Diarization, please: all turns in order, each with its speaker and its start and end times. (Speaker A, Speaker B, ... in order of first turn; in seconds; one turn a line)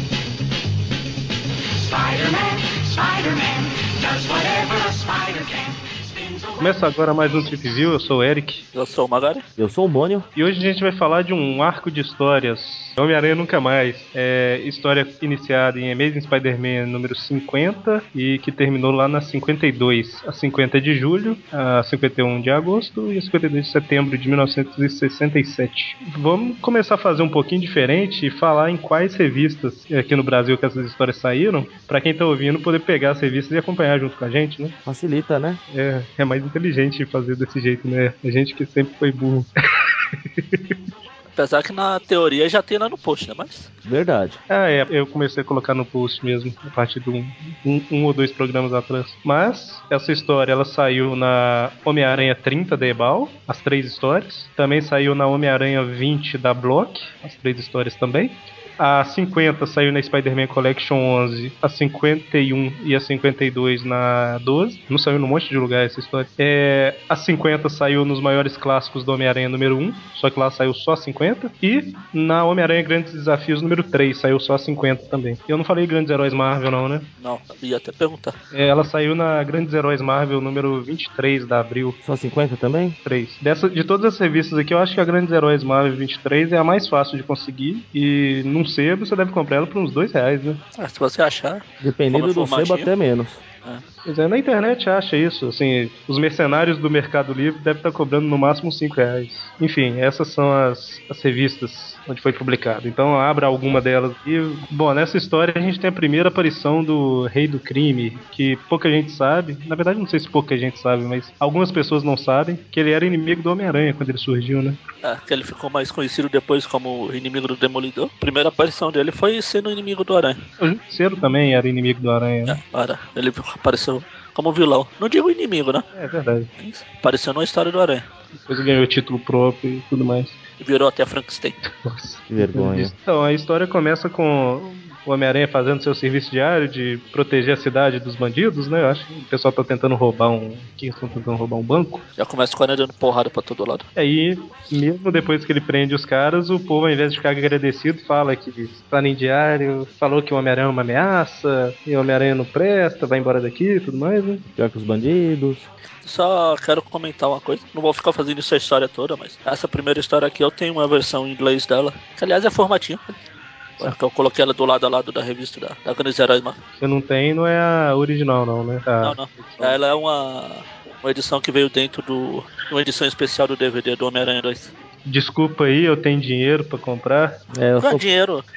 Speaker A: 1.8-6.8
Speaker B: 6.6-8.6
Speaker C: 8.7-9.4
Speaker D: 9.6-10.2
Speaker B: 10.3-34.8
Speaker D: 34.9-35.6
Speaker B: 35.7-39.5
Speaker B: 40.1-40.7
Speaker C: 41.3-43.7
Speaker D: 43.8-44.4
Speaker B: 44.5-77.1
Speaker C: 77.2-78.3
Speaker B: 78.5-82.0
Speaker D: 82.0-83.0
Speaker B: 83.0-90.6
Speaker C: 90.8-92.9
Speaker D: 91.8-93.4
Speaker B: 94.0-114.8
Speaker C: 115.0-120.4
Speaker B: 120.6-122.6
Speaker C: 122.5-125.8
Speaker B: 125.9-126.5
Speaker C: 126.6-128.0
Speaker B: 128.5-130.4
Speaker C: 130.6-131.6
Speaker B: 131.7-142.0
Speaker D: 132.3-132.9
Speaker C: 142.2-143.8
Speaker B: 143.9-154.4
Speaker D: 154.6-155.7
Speaker C: 156.0-163.0
Speaker C: 163.8-166.6
Speaker B: 166.8-169.8
Speaker C: 169.0-174.7
Speaker B: 175.1-177.4
Speaker D: 177.5-178.0
Speaker C: 177.8-178.4